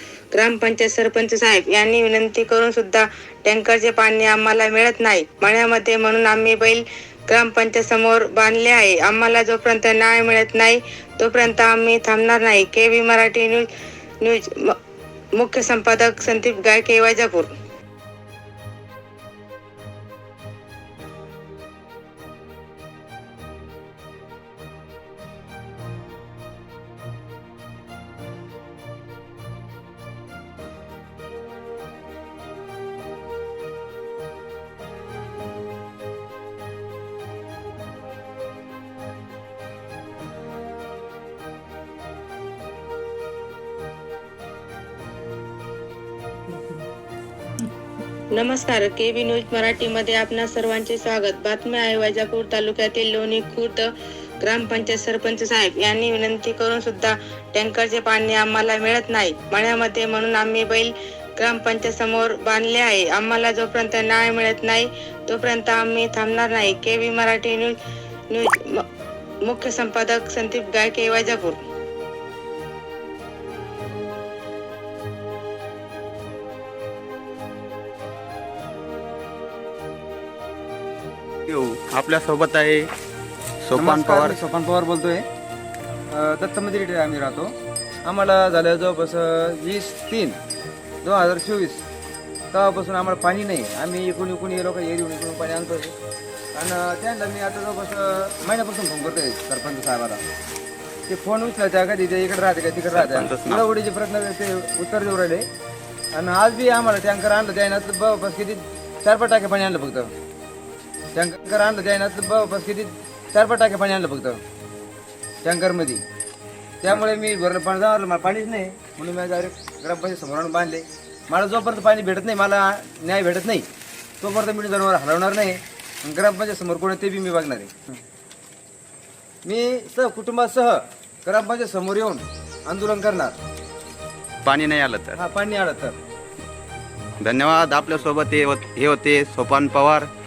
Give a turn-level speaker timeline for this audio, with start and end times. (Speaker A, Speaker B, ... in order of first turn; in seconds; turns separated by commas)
Speaker A: 0.3-13.7, Speaker A: 14.2-14.8, Speaker A: 15.3-17.5, Speaker A: 48.3-53.9, Speaker A: 54.4-67.8, Speaker A: 68.3-68.8, Speaker A: 69.4-71.6, Speaker B: 81.5-82.9, Speaker B: 83.6-84.4, Speaker C: 83.8-85.2, Speaker C: 86.1-87.5, Speaker C: 88.0-90.4, Speaker C: 91.0-91.8, Speaker C: 92.5-95.9, Speaker C: 96.5-100.2, Speaker C: 101.1-105.4, Speaker B: 102.9-103.6, Speaker C: 106.1-110.1, Speaker C: 111.1-114.4, Speaker C: 115.4-116.0, Speaker C: 116.8-123.7, Speaker C: 124.2-127.7, Speaker C: 129.4-133.3, Speaker B: 134.4-135.2, Speaker C: 135.1-136.0, Speaker B: 137.2-140.1